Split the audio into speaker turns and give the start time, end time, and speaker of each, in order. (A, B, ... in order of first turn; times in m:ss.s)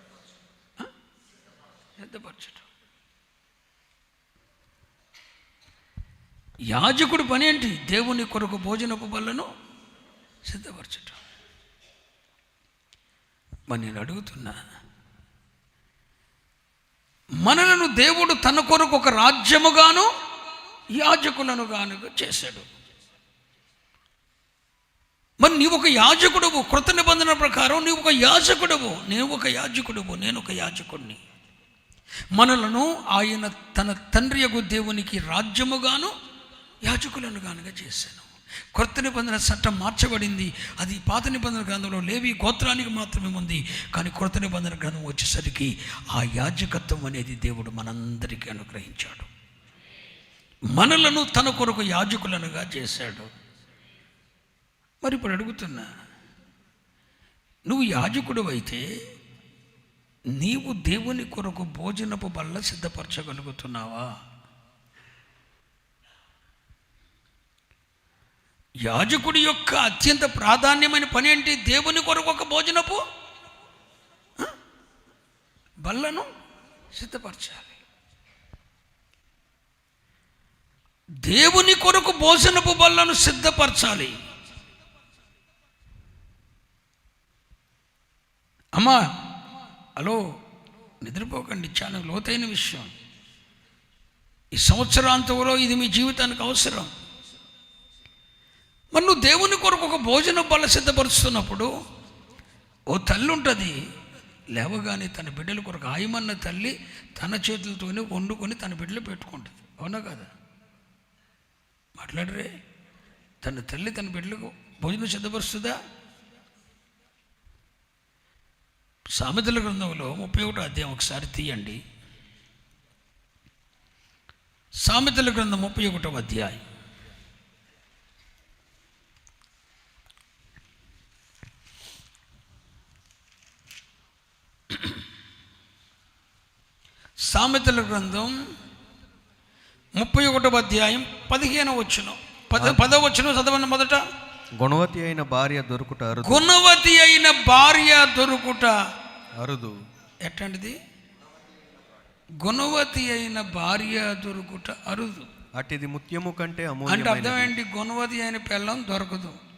0:02.0-0:02.7 A
0:06.7-0:09.5 A
0:10.4-0:11.2 A
0:13.7-0:14.6 A
0:17.4-0:20.1 A
0:20.9-0:22.7 A
0:25.4-0:31.2 A
0:32.3-0:36.1 A
0:36.8-0:49.3 A
0:50.7-0:53.3 A
0:55.0-0:55.9 A
0:57.7-0:58.8 A
1:00.3-1:04.1 A
1:08.8-1:13.0 A
1:15.8-1:16.3 A
1:16.9-1:17.8 A
1:21.2-1:24.2 A
1:28.8-1:29.0 A
1:30.0-1:30.2 A
1:31.0-1:32.9 A
1:34.5-1:36.9 A
1:38.9-1:41.7 A
1:42.9-1:43.8 A
1:44.5-1:50.3 A
1:52.0-1:52.5 A
1:53.4-1:55.8 A
1:59.1-2:01.8 A
2:04.8-2:06.6 A
2:17.2-2:18.3 A
2:20.0-2:24.0 A
2:22.6-2:22.8 B
2:24.6-2:26.5 B
2:26.2-2:28.8 A
2:29.4-2:29.7 B
2:30.2-2:30.8 A
2:32.4-2:35.3 A
2:35.6-2:37.5 B
2:36.9-2:39.4 A